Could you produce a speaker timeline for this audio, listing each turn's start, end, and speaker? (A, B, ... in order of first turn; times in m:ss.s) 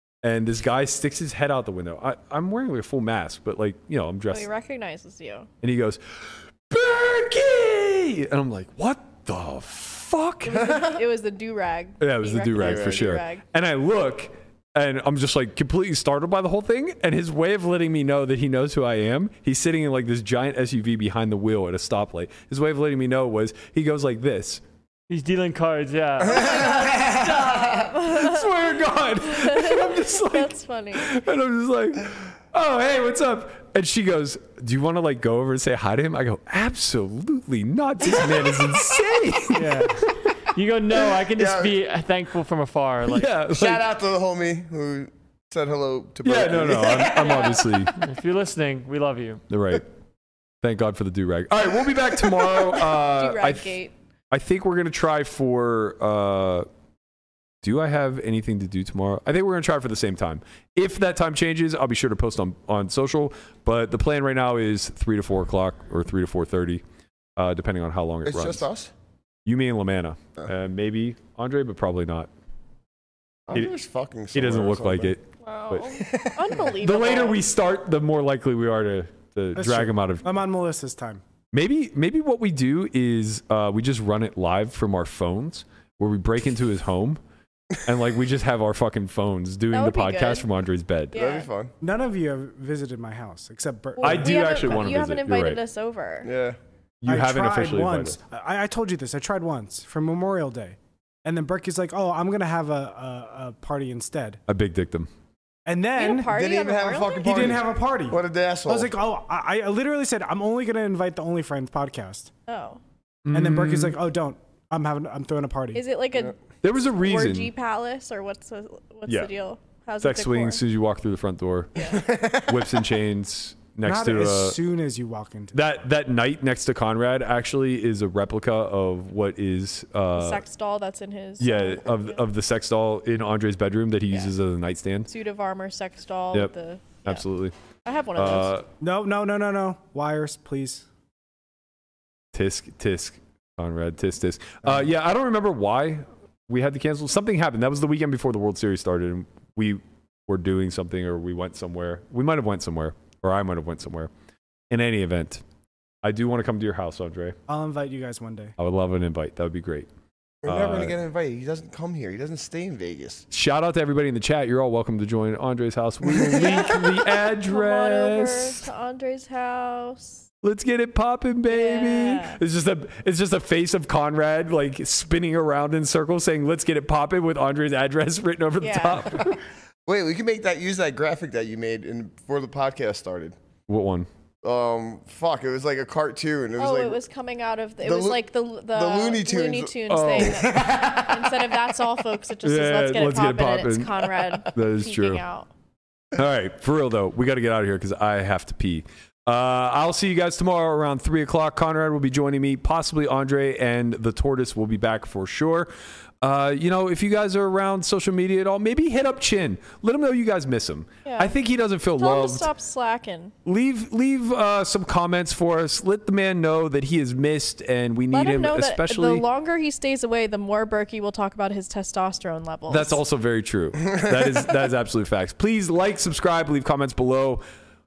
0:00.2-0:04.5 A
0:04.3-0:05.5 B
0:05.6-0:10.8 A
0:10.4-0:13.4 B
0:10.6-0:11.0 C
0:12.0-0:24.6 A
0:12.6-0:13.1 C
0:25.1-0:26.6 D
0:26.2-0:27.9 C
0:26.6-0:28.5 B
0:27.9-0:40.2 A
0:29.2-0:31.2 B
0:39.5-0:43.4 D
0:41.3-0:41.7 C
0:43.1-0:43.9 A
0:43.5-0:47.6 C
0:46.2-0:47.9 A
0:47.0-0:47.6 B
0:48.0-0:49.4 D
0:49.5-0:49.9 A
0:50.6-0:53.8 A
0:53.0-0:53.9 B
0:54.3-0:56.7 A
0:57.6-1:06.8 A
1:07.4-1:08.7 A
1:08.3-1:08.9 C
1:09.5-1:12.3 A
1:13.5-1:15.1 C
1:14.3-1:15.9 A
1:15.4-1:17.4 B
1:16.0-1:16.7 C
1:16.8-1:20.3 A
1:19.6-1:21.2 E
1:21.5-1:27.2 A
1:27.8-1:31.2 A
1:29.7-1:30.5 B
1:31.1-1:31.5 B
1:31.1-1:31.8 C
1:31.8-1:34.8 E
1:34.0-1:36.3 B
1:34.0-1:35.6 A
1:36.2-1:36.6 C
1:37.0-1:38.2 A
1:37.0-1:44.4 E
1:44.5-1:45.1 A
1:45.7-1:46.4 E
1:46.0-1:47.5 B
1:46.2-1:48.9 C
1:47.2-1:52.3 E
1:52.5-1:52.8 B
1:53.2-1:54.0 A
1:53.3-1:55.8 E
1:55.7-1:56.4 B
1:56.6-1:57.5 A
1:57.0-2:00.6 B
2:00.0-2:04.6 A
2:01.8-2:02.0 B
2:01.8-2:02.8 C
2:03.8-2:05.7 E
2:05.5-2:10.4 A
2:10.2-2:12.2 B
2:11.4-2:15.1 A
2:15.1-2:17.2 B
2:17.0-2:17.6 A
2:17.8-2:18.6 B
2:18.2-2:18.7 A
2:18.8-2:20.8 E
2:22.3-2:34.1 A
2:34.7-2:35.4 A
2:36.0-2:37.4 A
2:37.5-2:38.6 E
2:38.6-2:39.9 A
2:40.4-2:43.3 C
2:40.4-2:41.0 A
2:43.3-2:48.6 A
2:46.2-2:46.5 C
2:46.3-2:46.9 B
2:47.4-2:50.3 B
2:50.4-2:59.4 A
2:51.5-2:52.4 B
2:58.6-2:59.3 B
2:59.9-3:03.4 C
3:03.7-3:04.1 A
3:04.4-3:07.0 C
3:06.6-3:15.5 B
3:07.8-3:11.6 C
3:09.9-3:10.5 A
3:12.4-3:15.2 A
3:16.2-3:25.7 A
3:26.2-3:32.5 A
3:31.0-3:31.3 B
3:32.0-3:33.3 B
3:33.4-3:39.3 A
3:38.1-3:43.0 B
3:42.7-3:47.4 A